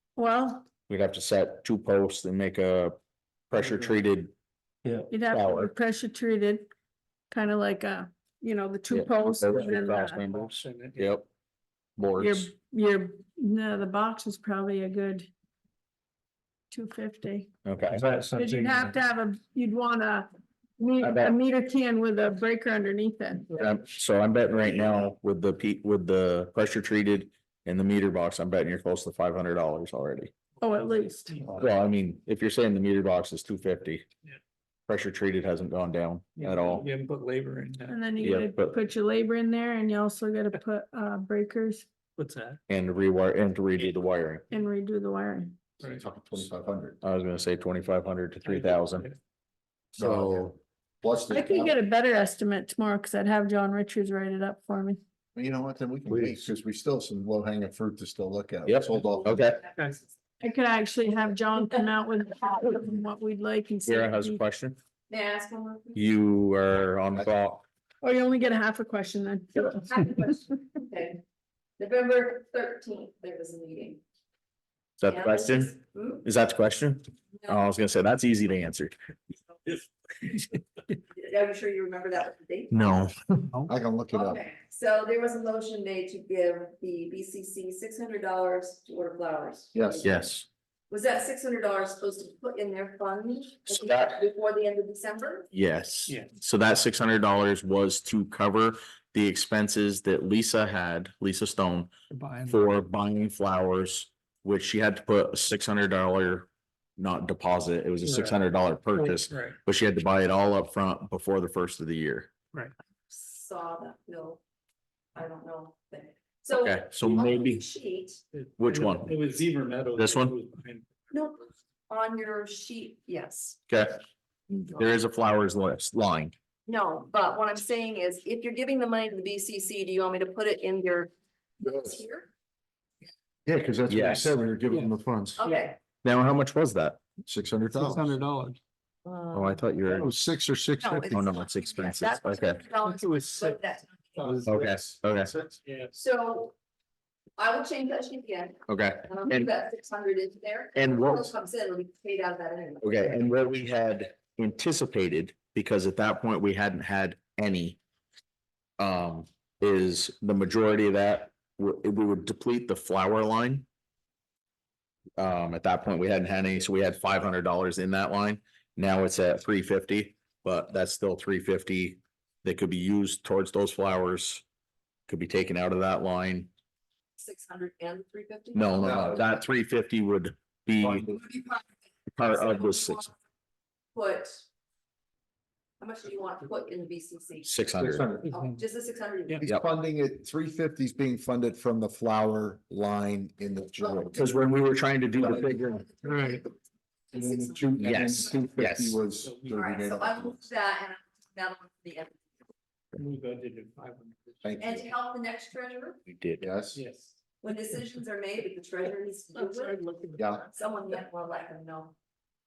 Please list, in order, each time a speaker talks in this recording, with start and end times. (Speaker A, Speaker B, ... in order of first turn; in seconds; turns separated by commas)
Speaker A: 0.2-0.7, Speaker B: 0.9-3.0, Speaker B: 3.5-4.3, Speaker A: 5.1-6.7, Speaker B: 5.3-5.7, Speaker A: 7.3-10.2, Speaker B: 8.9-11.3, Speaker C: 10.3-11.1, Speaker B: 12.0-12.5, Speaker A: 12.2-15.3, Speaker A: 16.7-17.5, Speaker B: 17.6-18.1, Speaker C: 18.1-18.8, Speaker A: 18.3-20.3, Speaker A: 20.8-23.6, Speaker B: 21.0-21.4, Speaker B: 23.6-30.3, Speaker A: 30.6-31.3, Speaker C: 30.6-31.6, Speaker B: 31.6-34.0, Speaker B: 34.9-36.9, Speaker C: 36.4-38.0, Speaker A: 37.9-41.9, Speaker B: 38.2-38.8, Speaker C: 42.2-42.6, Speaker B: 42.7-44.4, Speaker A: 44.5-45.6, Speaker D: 45.8-47.0, Speaker B: 47.0-49.1, Speaker C: 48.4-49.2, Speaker B: 49.9-50.6, Speaker D: 50.0-50.5, Speaker D: 51.0-51.8, Speaker A: 51.3-55.0, Speaker D: 55.3-59.4, Speaker B: 58.6-59.6, Speaker E: 59.3-60.1, Speaker A: 60.4-64.4, Speaker B: 63.9-64.8, Speaker E: 65.1-66.0, Speaker B: 65.9-67.7, Speaker A: 68.0-70.0, Speaker E: 69.6-71.2, Speaker E: 71.8-74.0, Speaker B: 75.0-78.9, Speaker E: 75.1-76.2, Speaker E: 81.1-83.0, Speaker B: 82.7-83.5, Speaker D: 83.6-84.4, Speaker E: 84.1-90.1, Speaker D: 89.7-90.0, Speaker B: 90.0-90.5, Speaker E: 90.9-95.5, Speaker B: 93.7-94.2, Speaker B: 95.5-101.9, Speaker C: 102.1-102.6, Speaker B: 102.5-112.3, Speaker C: 108.0-108.4, Speaker C: 108.9-109.5, Speaker E: 113.1-114.4, Speaker E: 115.1-118.2, Speaker B: 116.5-117.6, Speaker C: 118.3-120.8, Speaker B: 118.6-119.1, Speaker B: 120.0-120.3, Speaker E: 121.1-123.6, Speaker B: 123.7-124.0, Speaker B: 124.6-126.3, Speaker E: 126.7-132.3, Speaker D: 133.4-135.4, Speaker B: 133.9-134.3, Speaker E: 135.4-135.8, Speaker B: 136.0-137.0, Speaker D: 137.3-138.2, Speaker C: 137.7-138.6, Speaker E: 139.0-139.6, Speaker B: 139.3-140.1, Speaker D: 139.9-141.3, Speaker E: 140.8-144.4, Speaker B: 141.1-142.6, Speaker C: 142.8-143.6, Speaker C: 144.2-144.6, Speaker B: 144.4-145.3, Speaker C: 145.6-145.9, Speaker E: 145.9-146.5, Speaker E: 147.4-153.1, Speaker B: 148.7-149.5, Speaker B: 150.7-151.3, Speaker B: 152.8-157.8, Speaker B: 158.8-163.7, Speaker B: 165.2-174.4, Speaker B: 175.1-176.5, Speaker E: 177.2-179.3, Speaker B: 178.5-181.1, Speaker D: 178.8-179.2, Speaker D: 180.8-181.2, Speaker E: 181.2-181.6, Speaker B: 182.1-183.1, Speaker E: 182.2-183.1, Speaker E: 183.9-184.4, Speaker E: 185.8-187.5, Speaker B: 187.4-188.1, Speaker D: 187.8-188.3, Speaker E: 188.2-189.4, Speaker C: 188.3-188.6, Speaker D: 189.4-194.2, Speaker E: 193.8-194.2, Speaker B: 194.1-195.8, Speaker D: 195.2-195.6, Speaker E: 195.5-196.5, Speaker C: 196.0-196.4, Speaker E: 197.1-197.8, Speaker C: 197.1-197.8, Speaker D: 197.2-200.5, Speaker B: 197.8-199.0, Speaker C: 199.2-199.7, Speaker E: 199.5-202.3, Speaker C: 202.9-204.7, Speaker D: 204.4-204.9, Speaker E: 204.6-206.0, Speaker B: 206.1-206.4, Speaker D: 206.4-206.8, Speaker C: 206.7-207.1, Speaker E: 207.4-211.9, Speaker C: 209.6-210.2, Speaker D: 210.2-210.4